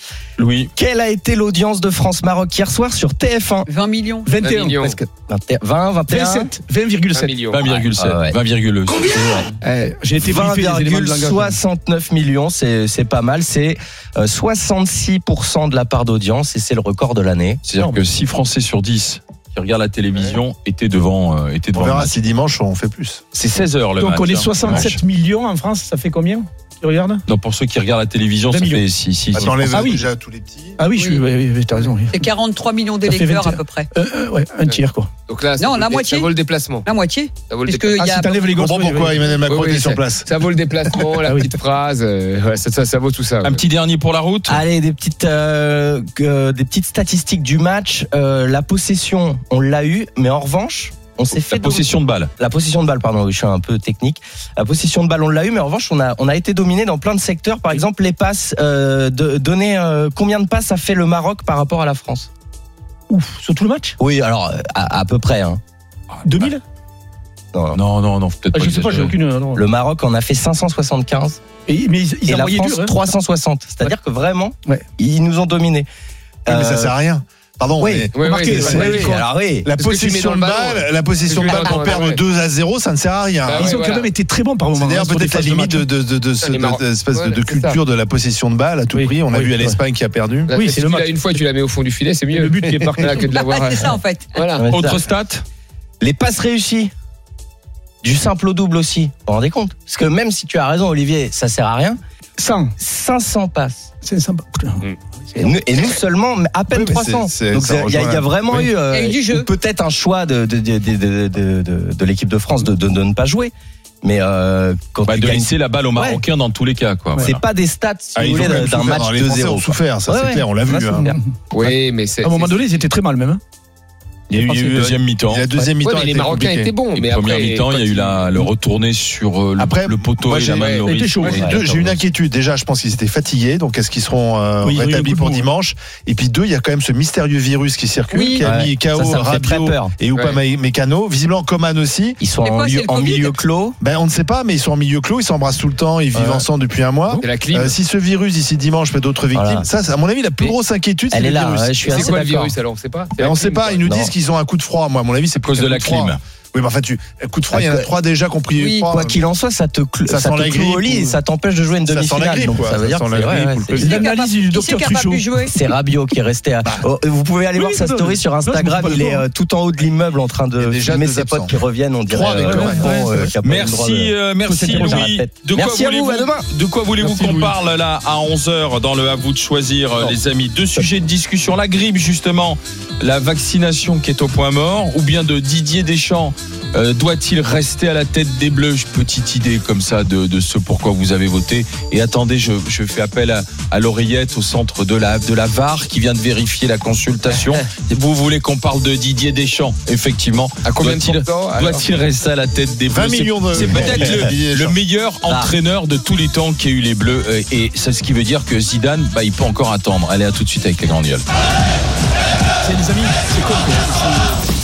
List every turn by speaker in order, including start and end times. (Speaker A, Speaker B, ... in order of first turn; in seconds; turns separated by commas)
Speaker A: 0.4-0.7, Speaker B: 0.8-3.7, Speaker C: 3.6-4.3, Speaker D: 4.2-5.0, Speaker E: 4.4-5.0, Speaker B: 5.3-6.5, Speaker D: 6.1-7.4, Speaker E: 7.1-7.6, Speaker A: 7.5-9.4, Speaker B: 7.6-8.3, Speaker B: 9.1-9.5, Speaker D: 9.8-11.6, Speaker B: 10.2-17.6, Speaker A: 17.6-22.2, Speaker D: 17.7-18.1, Speaker F: 21.7-23.2, Speaker A: 23.3-25.0, Speaker D: 24.0-27.2, Speaker F: 24.6-24.9, Speaker A: 27.3-29.9, Speaker D: 28.5-28.8, Speaker F: 29.3-30.8, Speaker D: 29.7-30.1, Speaker D: 30.8-32.2, Speaker C: 30.9-33.9, Speaker D: 33.0-35.1, Speaker E: 34.6-36.9, Speaker C: 35.6-36.3, Speaker C: 36.8-38.5, Speaker E: 37.5-38.0, Speaker D: 38.0-39.3, Speaker F: 38.5-40.3, Speaker E: 39.5-43.6, Speaker D: 41.2-41.5, Speaker A: 43.4-44.6, Speaker B: 44.5-62.3, Speaker A: 51.3-52.3, Speaker D: 63.1-64.0, Speaker B: 64.0-65.6, Speaker D: 66.2-66.6, Speaker B: 67.5-67.8, Speaker A: 67.7-69.2, Speaker D: 68.5-69.6, Speaker B: 69.5-71.4, Speaker D: 71.7-73.0, Speaker B: 72.2-75.9, Speaker B: 76.5-77.0, Speaker F: 76.5-79.1, Speaker B: 77.8-78.1, Speaker E: 78.1-79.2, Speaker D: 78.2-79.1, Speaker B: 78.7-79.7, Speaker F: 79.6-83.8, Speaker E: 79.8-82.2, Speaker C: 81.6-81.9, Speaker E: 83.4-84.1, Speaker D: 83.5-85.9, Speaker F: 84.7-90.6, Speaker E: 86.4-87.8, Speaker D: 88.9-89.8, Speaker E: 90.5-94.6, Speaker D: 90.6-91.3, Speaker D: 92.3-93.3, Speaker C: 93.0-94.3, Speaker B: 94.6-95.0, Speaker A: 94.7-95.4, Speaker B: 96.0-96.9, Speaker B: 98.0-102.0, Speaker D: 102.4-102.7, Speaker B: 102.8-103.9, Speaker D: 104.0-105.5, Speaker B: 105.3-116.2, Speaker F: 106.7-108.7, Speaker C: 108.9-109.5, Speaker A: 115.0-117.4, Speaker B: 117.2-121.1, Speaker F: 118.2-121.1, Speaker D: 121.0-121.2, Speaker E: 121.5-122.6, Speaker D: 122.2-123.4, Speaker F: 124.3-126.8, Speaker A: 124.3-125.6, Speaker E: 125.8-128.5, Speaker A: 126.9-132.0, Speaker F: 129.6-142.2, Speaker E: 130.6-130.9, Speaker D: 130.7-131.7, Speaker B: 131.3-131.6, Speaker D: 134.6-135.5, Speaker C: 138.1-138.5, Speaker B: 138.4-139.9, Speaker E: 140.1-140.4, Speaker B: 142.2-143.8, Speaker C: 142.4-143.4, Speaker F: 143.8-151.8, Speaker B: 146.1-146.5, Speaker E: 147.2-147.8, Speaker B: 149.3-149.7, Speaker B: 151.1-152.5, Speaker E: 151.8-153.9, Speaker F: 153.2-159.2, Speaker B: 153.8-154.1, Speaker A: 155.3-156.2, Speaker B: 157.5-157.9, Speaker C: 158.5-158.9, Speaker B: 158.9-163.9, Speaker F: 160.1-161.2, Speaker F: 161.8-164.0, Speaker D: 163.8-165.4, Speaker C: 163.8-165.5, Speaker B: 165.5-176.4, Speaker D: 167.5-169.2, Speaker F: 170.6-173.2, Speaker D: 172.4-173.3, Speaker A: 173.4-211.2, Speaker F: 177.0-177.5, Speaker E: 200.6-201.8, Speaker F: 202.9-204.7, Speaker B: 203.6-204.3, Speaker B: 205.2-205.5, Speaker D: 212.6-214.3